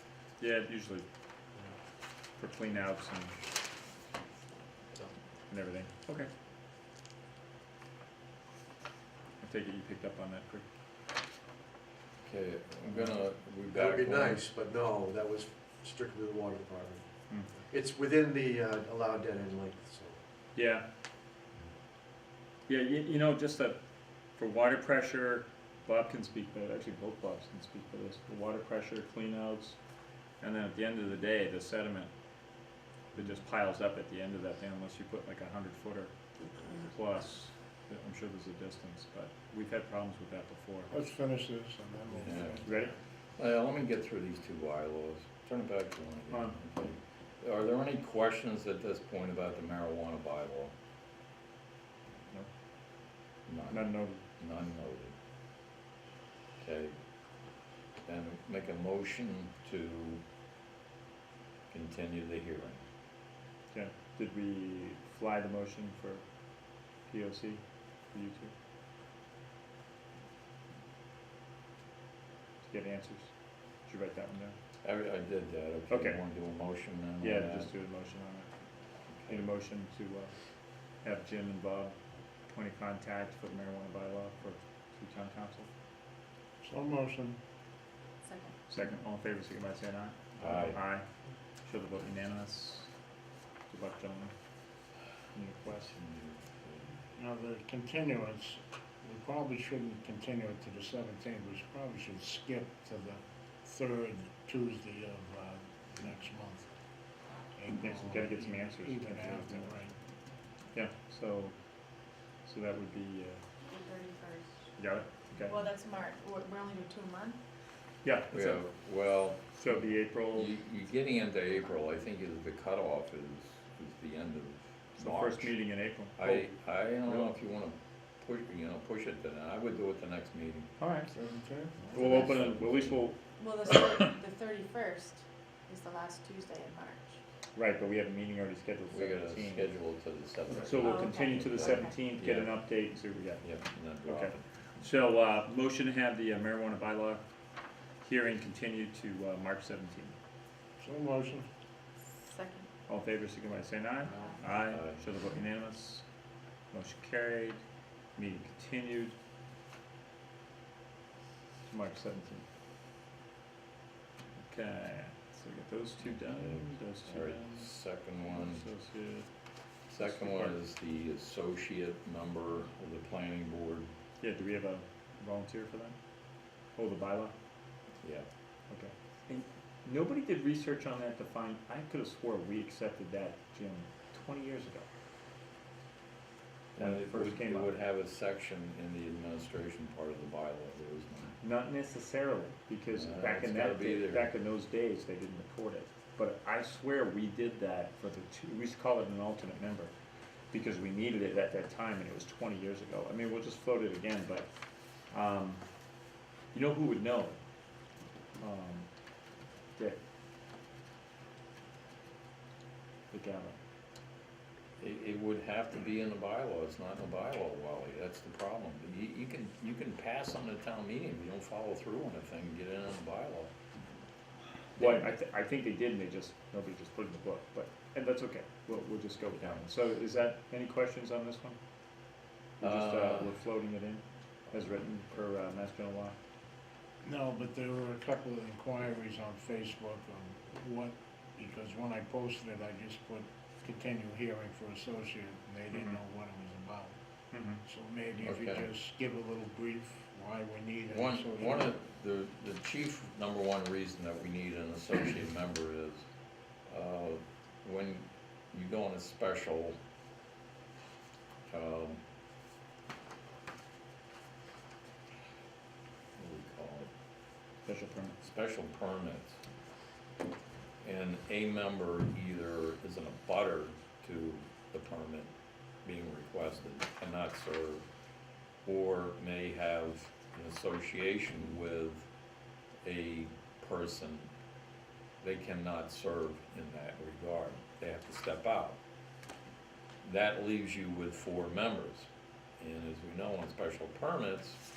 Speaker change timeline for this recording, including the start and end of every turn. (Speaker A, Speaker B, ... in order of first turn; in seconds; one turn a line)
Speaker A: 0.4-1.1
Speaker A: 2.4-3.4
Speaker A: 5.5-6.3
Speaker A: 9.4-10.7
Speaker B: 12.2-14.4
Speaker C: 12.9-13.2
Speaker C: 13.7-20.2
Speaker A: 20.6-20.9
Speaker A: 22.7-23.8
Speaker A: 24.4-29.8
Speaker A: 30.4-32.1
Speaker A: 33.1-36.1
Speaker A: 36.8-40.9
Speaker D: 40.9-42.7
Speaker B: 42.2-42.8
Speaker A: 42.6-43.0
Speaker B: 43.4-50.7
Speaker B: 53.5-55.1
Speaker A: 53.7-54.2
Speaker B: 56.6-57.0
Speaker B: 58.0-60.2
Speaker B: 61.7-62.8
Speaker A: 63.7-66.2
Speaker A: 67.1-68.5
Speaker A: 72.6-73.3
Speaker A: 73.8-74.5
Speaker B: 74.8-77.7
Speaker A: 75.9-76.2
Speaker A: 77.2-78.5
Speaker B: 79.1-79.5
Speaker A: 79.2-80.3
Speaker A: 81.0-82.0
Speaker A: 82.5-85.7
Speaker D: 86.6-87.4
Speaker E: 88.2-88.5
Speaker A: 88.7-91.1
Speaker B: 90.4-90.8
Speaker A: 91.6-92.9
Speaker A: 93.7-94.3
Speaker A: 95.3-96.0
Speaker B: 95.9-97.0
Speaker D: 97.2-106.7
Speaker D: 107.5-110.0
Speaker A: 107.8-109.8
Speaker A: 110.7-111.6
Speaker A: 112.4-113.4
Speaker E: 113.7-114.7
Speaker A: 114.8-115.6
Speaker E: 115.4-117.4
Speaker A: 118.0-118.7
Speaker B: 118.3-125.6
Speaker A: 119.5-120.5
Speaker A: 125.0-127.3
Speaker B: 126.2-130.7
Speaker A: 130.8-131.2
Speaker D: 131.1-132.3
Speaker A: 131.9-133.2
Speaker B: 131.9-133.1
Speaker E: 133.4-137.2
Speaker A: 137.6-139.7
Speaker B: 138.9-142.7
Speaker A: 140.5-143.4
Speaker E: 140.7-142.0
Speaker B: 143.4-144.9
Speaker A: 144.1-147.2
Speaker A: 148.0-150.2
Speaker D: 150.8-151.5
Speaker E: 152.2-152.7
Speaker A: 152.9-156.1
Speaker E: 154.1-154.4
Speaker B: 154.4-155.0
Speaker A: 156.7-157.6
Speaker A: 158.2-159.2
Speaker A: 161.7-162.4
Speaker A: 164.4-167.7
Speaker B: 166.0-168.7
Speaker A: 168.3-169.3
Speaker B: 169.9-173.9
Speaker A: 170.0-170.6
Speaker A: 174.2-176.0
Speaker A: 176.8-177.3
Speaker B: 178.0-178.3
Speaker A: 178.7-184.9
Speaker B: 186.8-191.4
Speaker A: 186.8-187.7
Speaker A: 191.4-199.9
Speaker B: 192.9-194.3
Speaker A: 200.5-204.5
Speaker A: 205.1-205.6
Speaker A: 206.5-207.4
Speaker A: 208.4-208.9
Speaker A: 213.1-213.6
Speaker B: 214.8-223.5
Speaker B: 224.8-225.1
Speaker A: 224.8-231.6
Speaker B: 229.3-229.6
Speaker A: 232.6-236.2
Speaker B: 232.6-233.4
Speaker D: 237.0-247.0
Speaker A: 247.3-247.6
Speaker D: 247.5-251.8
Speaker B: 248.2-248.7
Speaker B: 250.9-256.1
Speaker B: 256.7-259.8
Speaker B: 261.5-262.0
Speaker B: 266.2-266.9
Speaker A: 267.7-268.2
Speaker B: 268.2-269.4
Speaker B: 270.8-275.3
Speaker B: 275.8-277.9
Speaker B: 278.6-282.1
Speaker B: 282.8-284.3
Speaker B: 285.2-288.8
Speaker B: 290.0-292.1
Speaker B: 292.6-294.6